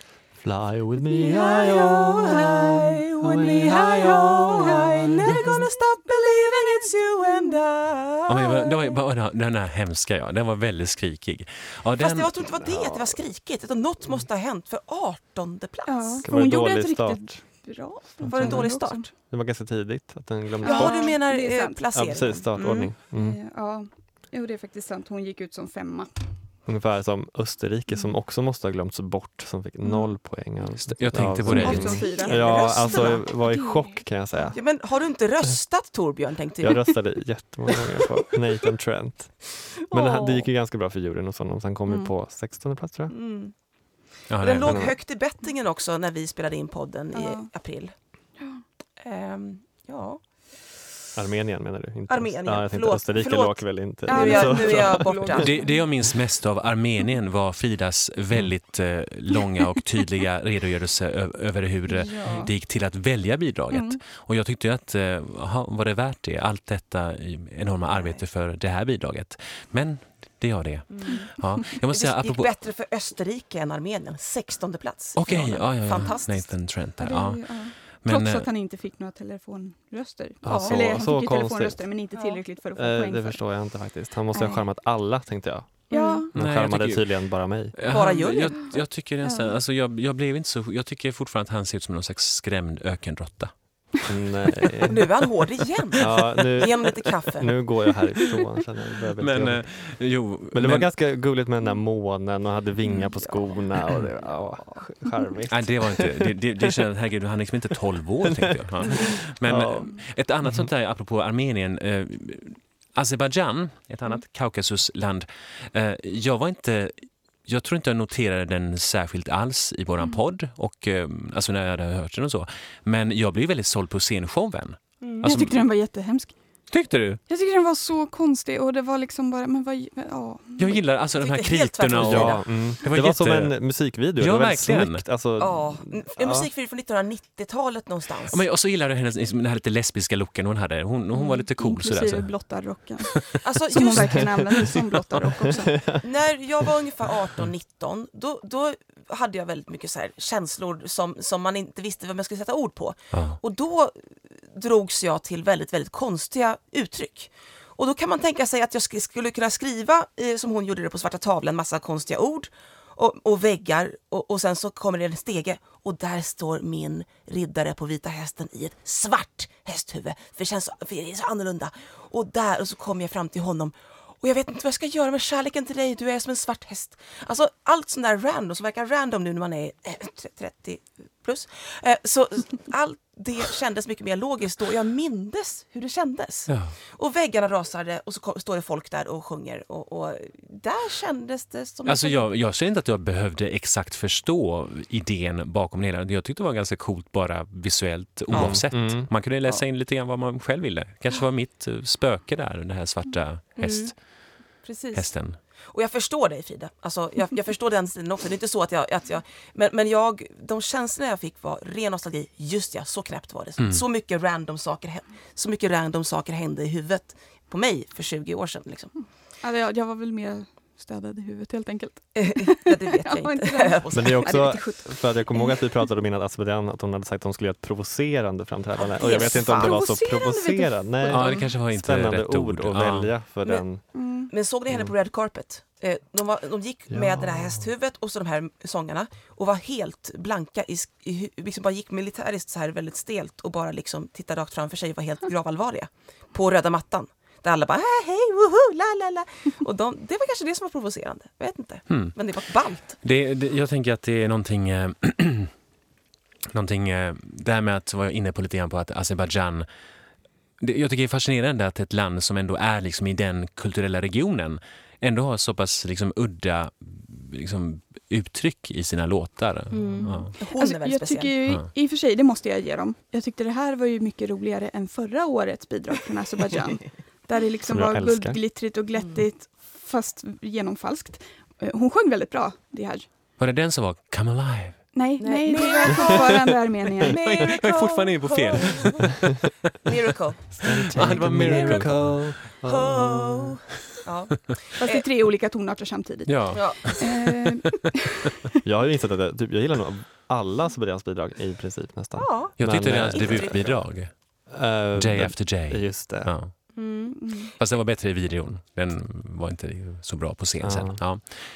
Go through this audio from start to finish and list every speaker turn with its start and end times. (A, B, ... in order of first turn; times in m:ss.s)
0:00.4-0:05.6 A
0:01.0-0:08.7 B
0:08.3-0:12.5 C
0:12.0-0:16.2 B
0:12.6-0:13.2 A
0:15.9-0:19.0 D
0:16.2-0:17.4 A
0:18.2-0:18.7 A
0:18.2-0:19.1 B
0:19.3-0:21.2 A
0:20.6-0:22.0 D
0:20.6-0:22.9 B
0:21.9-0:23.4 A
0:23.1-0:26.1 D
0:26.7-0:34.6 A
0:30.8-0:32.0 C
0:31.5-0:33.2 B
0:31.5-0:34.0 D
0:34.5-0:36.9 B
0:36.6-0:39.4 A
0:39.8-0:40.5 B
0:39.9-0:43.1 A
0:41.9-0:42.1 D
0:43.1-0:43.5 B
0:44.3-0:44.9 C
0:44.4-0:47.9 B
0:44.6-0:45.0 A
0:47.1-0:47.5 D
0:49.0-0:50.2 B
0:51.2-0:55.5 A
0:52.1-0:55.5 B
0:54.1-0:55.8 D
0:55.4-1:12.5 C
1:01.9-1:02.5 D
1:03.7-1:04.0 D
1:10.9-1:11.2 B
1:11.8-1:16.5 B
1:15.2-1:18.5 C
1:17.0-1:23.4 D
1:20.4-1:21.8 A
1:20.4-1:21.0 B
1:22.1-1:22.4 B
1:22.7-1:25.8 A
1:24.3-1:24.6 D
1:25.9-1:26.2 B
1:25.9-1:26.3 D
1:26.3-1:27.2 C
1:26.3-1:27.7 A
1:27.7-1:33.5 C
1:27.9-1:28.7 B
1:29.2-1:29.6 D
1:34.1-1:35.1 A
1:34.9-1:37.6 B
1:36.0-1:39.6 A
1:39.2-1:40.9 C
1:40.5-1:46.8 A
1:42.8-1:43.6 B
1:44.6-1:44.8 B
1:45.5-2:05.6 C
1:48.2-1:50.7 A
2:05.0-2:05.3 B
2:05.2-2:06.3 D
2:06.7-2:07.2 C
2:07.3-2:10.8 D
2:10.6-2:13.5 C
2:11.2-2:12.4 B
2:11.9-2:16.5 A
2:14.2-2:15.0 C
2:15.4-2:18.4 B
2:18.3-2:22.3 C
2:21.2-2:25.8 D
2:23.4-2:24.4 B
2:24.2-2:26.0 A
2:26.0-3:12.3 B
2:33.1-2:33.4 C
3:06.5-3:06.7 C
3:11.9-3:23.9 C
3:18.3-3:19.1 A
3:18.3-3:18.6 B
3:23.6-3:23.9 B
3:24.6-3:25.1 B
3:24.9-3:25.4 C
3:25.7-3:38.9 B
3:33.6-3:33.8 C
3:39.4-3:45.8 D
3:42.1-3:44.6 B
3:43.9-3:53.8 A
3:48.8-3:49.8 B
3:49.0-3:51.4 D
3:51.1-3:53.1 C
3:53.9-3:54.3 D
3:54.3-4:13.0 B
3:56.9-3:57.7 A
4:11.9-4:12.2 C
4:12.8-4:15.5 C
4:16.5-4:19.7 C
4:20.6-4:30.3 C
4:29.7-4:31.3 B
4:30.4-4:43.1 D
4:37.7-4:38.4 A
4:39.0-4:39.2 B
4:43.4-4:44.8 C
4:44.9-4:47.2 D
4:45.2-4:46.3 B
4:47.0-4:49.2 B
4:47.1-4:49.3 C
4:49.8-4:51.9 B
4:50.6-4:52.2 C
4:50.6-4:53.6 A
4:52.6-4:55.0 B
4:54.8-4:58.3 D
4:56.2-4:57.7 C
4:56.5-4:56.9 B
4:58.6-5:03.8 A
5:02.2-5:02.6 B
5:02.6-5:04.1 C
5:03.1-5:03.6 B
5:04.5-5:06.3 A
5:04.9-5:06.5 C
5:06.8-5:07.3 B
5:07.1-5:07.5 D
5:07.6-5:11.2 C
5:10.6-5:11.0 A